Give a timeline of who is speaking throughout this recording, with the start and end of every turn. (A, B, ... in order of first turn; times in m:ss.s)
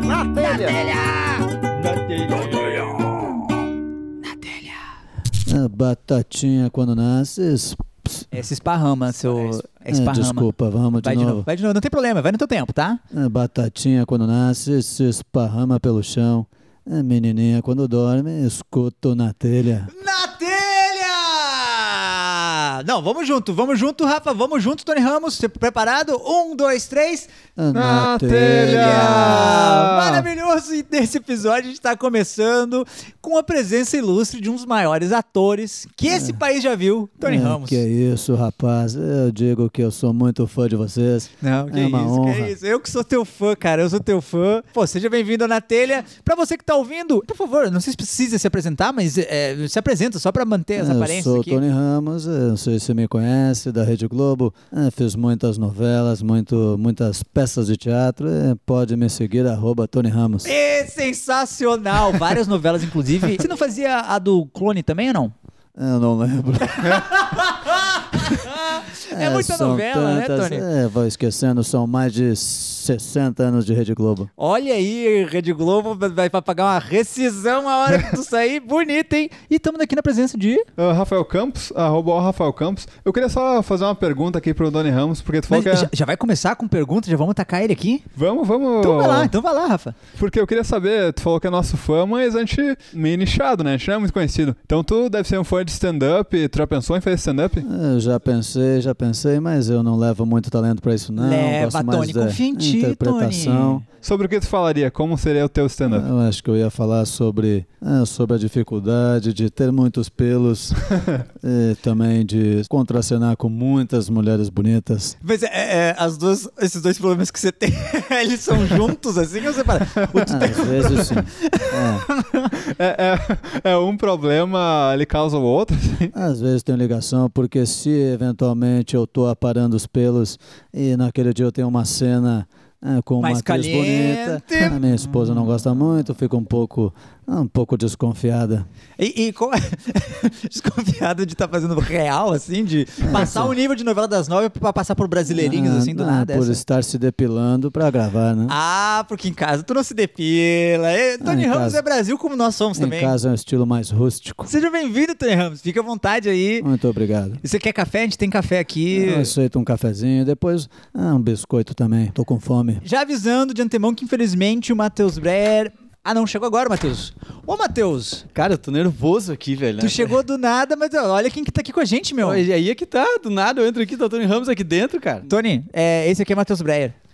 0:00.1-0:03.4 A
0:04.2-0:04.8 A
0:05.5-0:08.3 B
0:08.3-0:13.0 A
0:09.9-0:11.5 B
0:13.1-0:19.9 B
0:19.9-0:27.3 A
0:27.6-0:29.6 B
0:27.7-0:30.3 C
0:28.4-0:37.8 A
0:36.1-0:36.4 B
0:37.2-0:42.6 B
0:41.4-0:51.6 A
0:50.8-1:00.5 B
1:00.4-1:05.3 A
1:05.8-1:07.3 B
1:06.9-1:10.7 A
1:09.1-1:14.3 B
1:14.4-1:20.7 A
1:20.8-1:25.9 C
1:25.5-1:28.0 A
1:28.2-1:29.3 C
1:28.8-1:30.0 A
1:30.2-1:37.7 C
1:37.6-1:43.8 B
1:41.2-1:43.8 A
1:43.9-1:46.1 C
1:45.9-1:50.8 B
1:51.4-1:55.2 B
1:55.2-2:02.5 A
2:00.2-2:02.1 B
2:02.6-2:06.1 C
2:06.1-2:18.7 B
2:13.2-2:15.6 A
2:19.0-2:26.6 A
2:23.0-2:23.5 B
2:25.3-2:28.6 B
2:28.5-2:33.2 A
2:31.2-2:31.8 B
2:32.8-2:34.5 B
2:34.5-2:36.7 A
2:36.6-2:37.4 B
2:37.4-2:39.3 A
2:38.9-2:42.8 B
2:42.8-2:48.3 A
2:48.3-2:50.1 D
2:49.8-2:52.4 A
2:52.2-2:55.3 D
2:55.3-2:57.0 A